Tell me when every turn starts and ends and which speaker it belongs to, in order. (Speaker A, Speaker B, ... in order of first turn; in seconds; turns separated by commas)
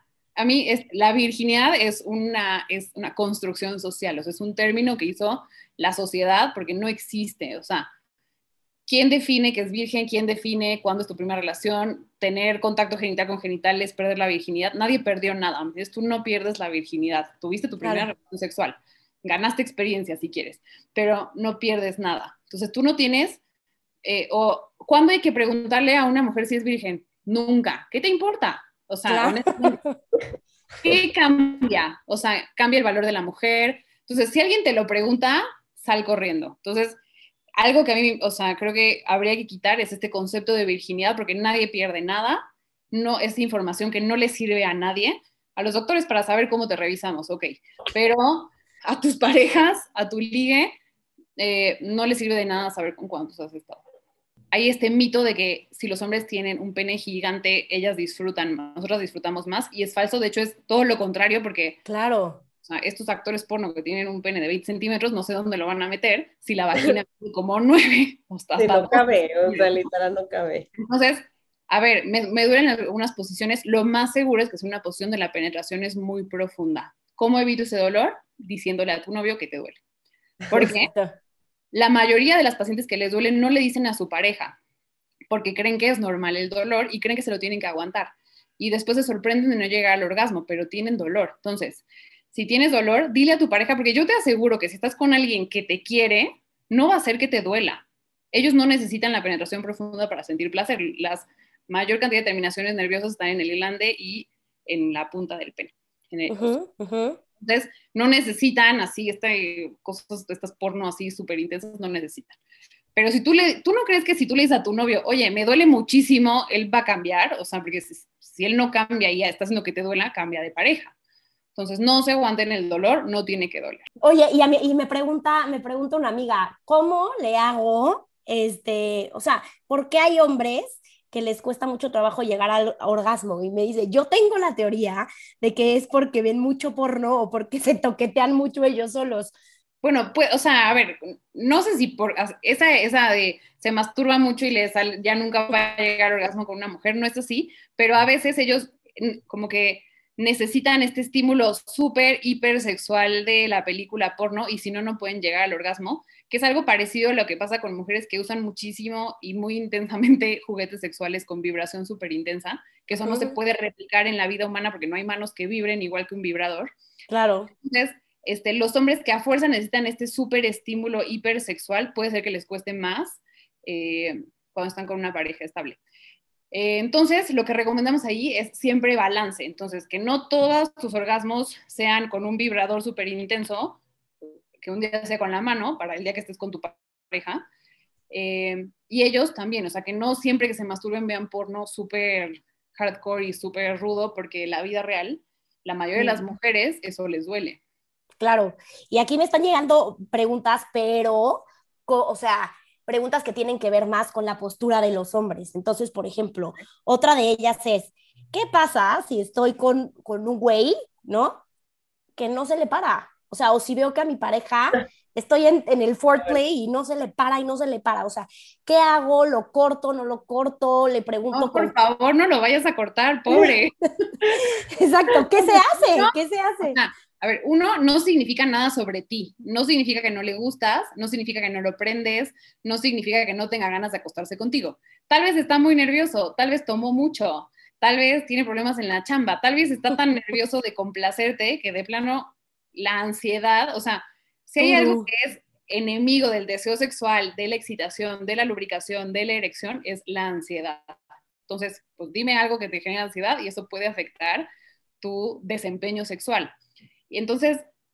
Speaker A: 0.3-7.9, Speaker A: 8.9-23.4, Speaker B: 17.8-18.1, Speaker A: 24.0-29.8, Speaker B: 29.1-30.0, Speaker A: 30.8-37.0, Speaker A: 37.6-50.7, Speaker A: 51.4-53.8, Speaker A: 54.5-61.8, Speaker B: 61.9-62.4, Speaker A: 62.6-69.7, Speaker C: 68.6-70.7, Speaker A: 70.8-79.8, Speaker A: 80.5-80.9, Speaker B: 80.5-81.1, Speaker A: 81.7-84.6, Speaker A: 85.3-106.5, Speaker B: 106.3-107.2, Speaker A: 107.4-112.4, Speaker A: 112.9-120.9, Speaker A: 121.5-123.8, Speaker B: 124.0-139.3, Speaker A: 139.8-166.7, Speaker B: 163.0-163.3, Speaker B: 167.1-167.5, Speaker A: 167.5-175.8, Speaker A: 176.5-183.8, Speaker A: 184.6-187.4, Speaker A: 188.1-197.6, Speaker B: 196.0-196.2, Speaker B: 198.2-211.4, Speaker B: 212.2-221.7, Speaker A: 221.3-224.4, Speaker B: 224.3-226.8, Speaker A: 225.3-254.5, Speaker B: 244.6-245.1, Speaker A: 255.0-256.5, Speaker A: 257.1-257.6